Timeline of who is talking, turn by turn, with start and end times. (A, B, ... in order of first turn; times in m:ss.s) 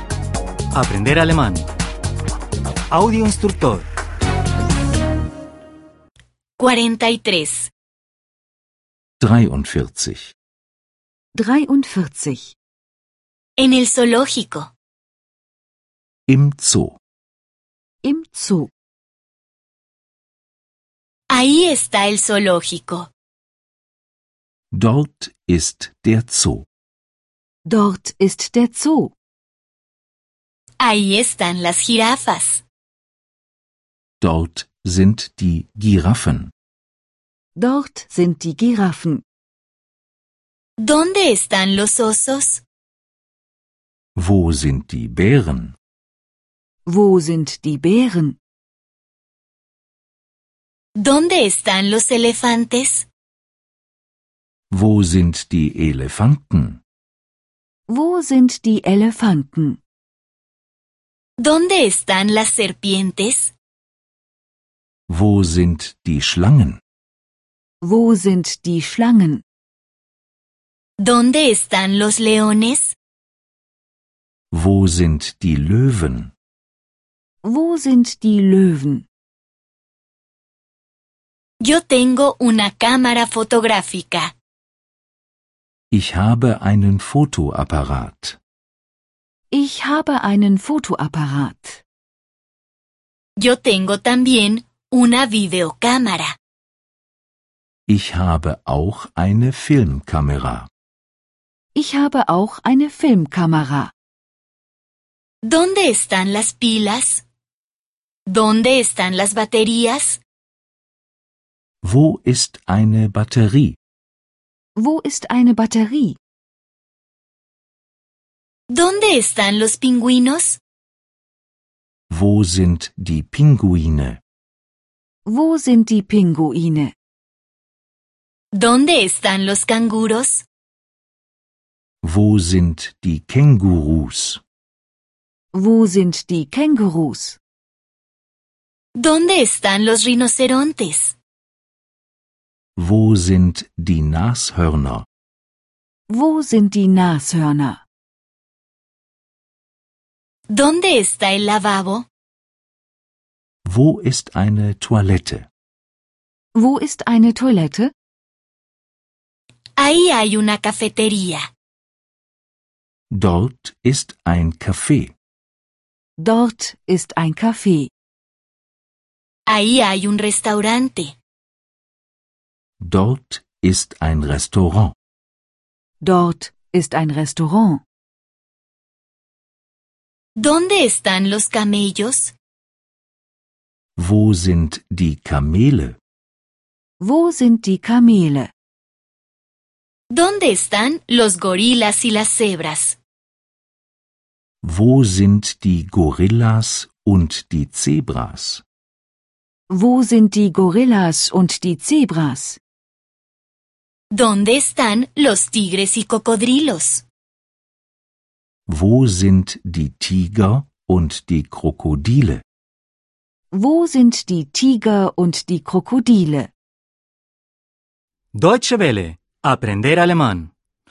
0:00.7-0:01.7 A
0:02.9-0:03.9 A
0:06.6-0:07.7 B
0:09.2-0:10.3 C
0:11.3-0:12.5 D
0:13.6-0:14.7 B
0:16.3-0:17.0 C
0:18.0-0:18.7 D
0:21.3-0:23.1 B
0:24.7-0:26.7 C
0:27.7-0:29.1 D
0:30.8-0:32.6 B
0:34.2-0:36.5 C
0:37.6-0:39.2 D
0:40.8-0:42.6 B
0:44.2-0:45.8 C
0:46.9-0:48.4 D
0:51.0-0:53.1 B
0:54.7-0:56.8 C
0:57.9-0:59.8 D
1:01.4-1:03.5 B
1:05.1-1:06.8 C
1:07.8-1:09.4 D
1:11.0-1:13.0 B
1:14.5-1:16.3 C
1:17.4-1:19.1 D
1:21.6-1:24.3 B
1:25.9-1:28.4 C
1:29.5-1:31.8 D
1:33.4-1:36.4 B
1:37.9-1:40.7 C
1:41.8-1:43.9 D
1:45.4-1:47.2 B
1:48.3-1:50.2 B
1:51.8-1:53.8 C
1:54.8-1:56.2 D
1:58.7-2:00.6 B
2:02.1-2:04.2 C
2:05.3-2:06.9 D
2:08.6-2:10.5 B
2:12.0-2:14.4 C
2:15.5-2:17.4 D
2:19.0-2:21.2 B
2:22.8-2:25.1 C
2:26.1-2:27.8 D
2:30.5-2:32.1 B
2:33.7-2:35.5 C
2:36.5-2:37.9 D
2:39.8-2:41.4 B
2:43.1-2:45.1 C
2:46.2-2:47.9 D
2:49.5-2:51.2 B
2:52.8-2:54.9 C
2:56.0-2:57.8 D
3:00.4-3:02.3 B
3:04.0-3:06.0 C
3:07.0-3:08.5 D
3:10.1-3:13.0 B
3:14.6-3:18.6 C
3:19.7-3:22.6 D
3:24.1-3:27.0 B
3:28.7-3:32.4 C
3:33.5-3:36.5 D
3:38.3-3:40.5 A